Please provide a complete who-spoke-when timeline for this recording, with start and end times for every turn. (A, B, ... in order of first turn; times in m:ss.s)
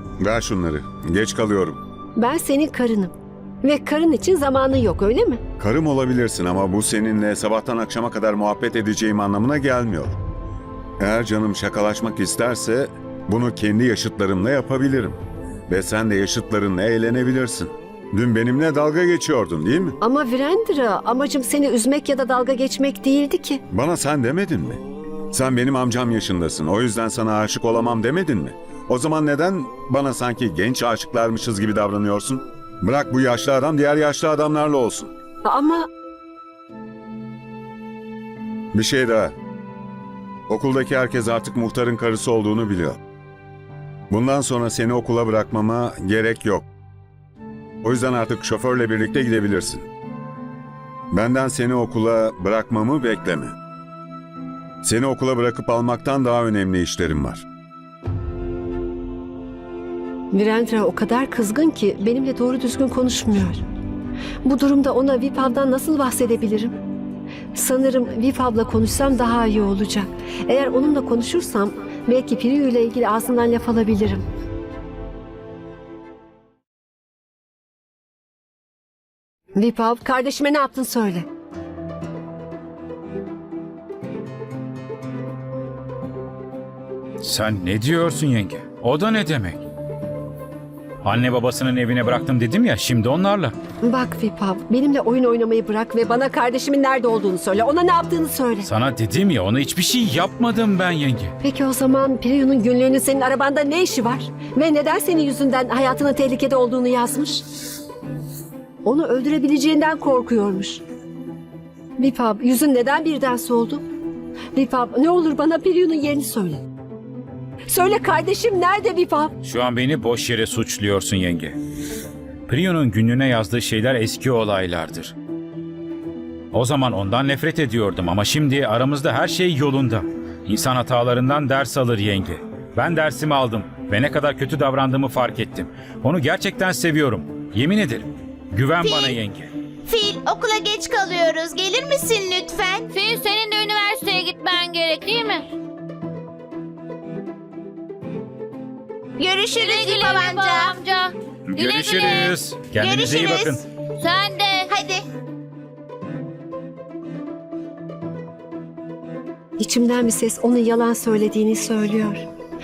0:00.2-0:01.8 A
0:02.2-0:03.1 B
0:03.6-0:05.4 B
0:05.6-0:10.2 A
0:11.0-0:20.0 A
0:20.0-0:23.6 B
0:23.7-0:35.1 A
0:35.4-0:35.9 B
0:38.7-0:39.4 A
0:40.5-0:43.0 A
0:44.1-0:46.7 A
0:47.8-0:49.8 A
0:51.1-0:53.6 A
0:54.8-0:57.4 A
1:00.3-1:03.6 B
1:04.4-1:06.8 B
1:07.5-1:14.2 B
1:19.6-1:21.3 B
1:27.2-1:29.6 C
1:31.0-1:33.6 C
1:33.8-1:38.7 B
1:38.6-1:41.3 C
1:41.4-1:47.4 B
1:48.8-1:50.8 B
1:52.0-1:53.8 B
1:54.5-1:56.6 B
1:57.7-1:59.4 B
1:59.4-2:01.6 C
2:02.5-2:05.2 C
2:06.5-2:19.5 C
2:18.8-2:19.2 D
2:19.8-2:22.9 D
2:22.9-2:25.5 E
2:29.2-2:30.8 D
2:29.5-2:32.4 E
2:31.5-2:33.6 C
2:32.8-2:33.6 D
2:34.0-2:34.7 E
2:34.7-2:35.0 D
2:39.6-2:42.2 B